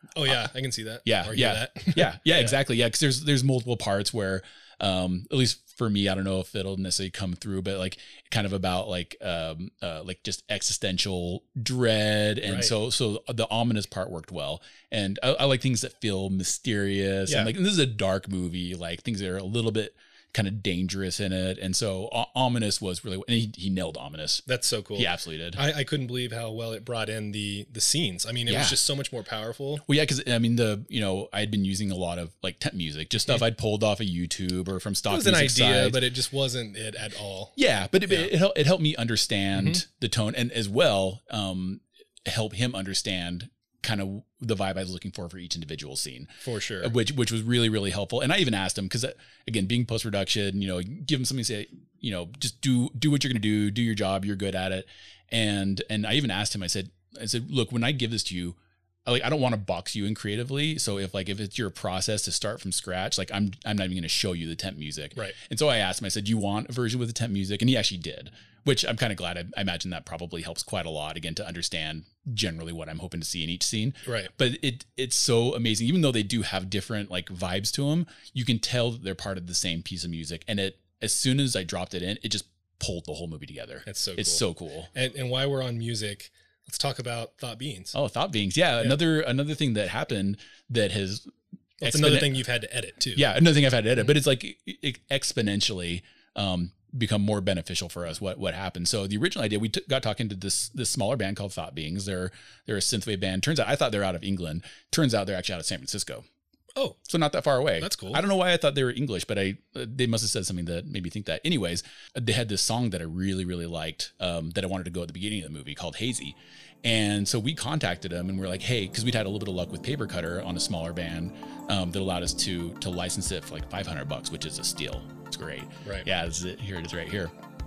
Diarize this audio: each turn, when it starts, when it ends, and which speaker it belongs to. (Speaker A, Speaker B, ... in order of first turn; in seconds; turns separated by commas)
Speaker A: 0.2-2.6, Speaker B: 1.1-24.4, Speaker A: 12.5-12.7, Speaker A: 17.3-17.5, Speaker A: 24.5-29.8, Speaker B: 25.0-25.6, Speaker B: 28.5-28.8, Speaker B: 29.9-36.0, Speaker A: 35.1-37.5, Speaker B: 37.6-84.9, Speaker A: 39.5-39.8, Speaker A: 46.4-46.9, Speaker A: 74.1-74.3, Speaker A: 83.9-88.0, Speaker B: 87.9-92.4, Speaker A: 91.8-93.3, Speaker B: 93.2-106.3, Speaker B: 107.1-127.3, Speaker A: 107.8-108.2